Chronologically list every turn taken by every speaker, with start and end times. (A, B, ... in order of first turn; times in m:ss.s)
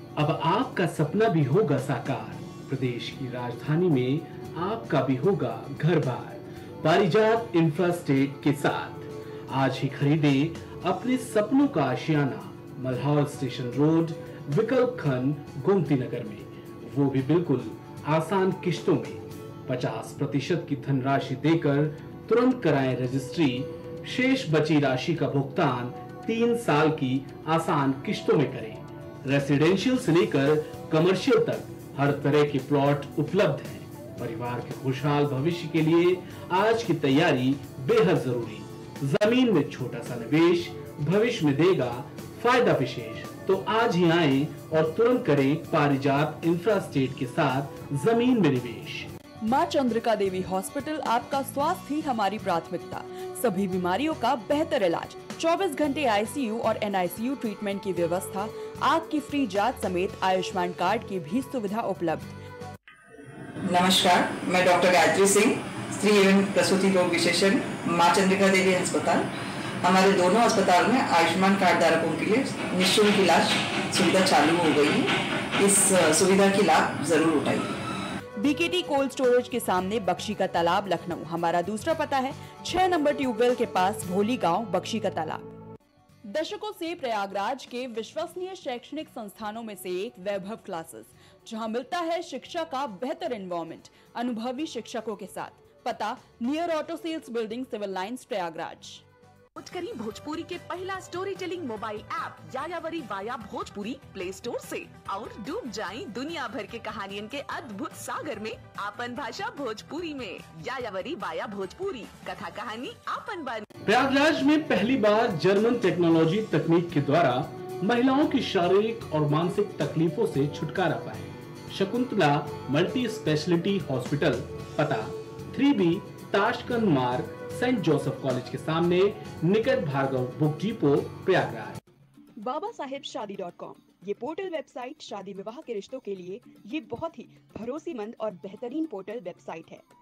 0:00.2-0:49.1 A
0:49.4-1:02.4 B
1:03.6-1:09.3 C
1:09.8-1:17.7 C
1:18.4-1:25.5 B
1:26.3-1:39.0 B
1:39.6-1:53.7 D
1:53.9-2:11.8 A
2:12.5-2:12.9 B
2:12.6-2:18.3 E
2:14.1-2:14.4 B
2:17.7-2:19.2 B
2:18.9-2:19.6 E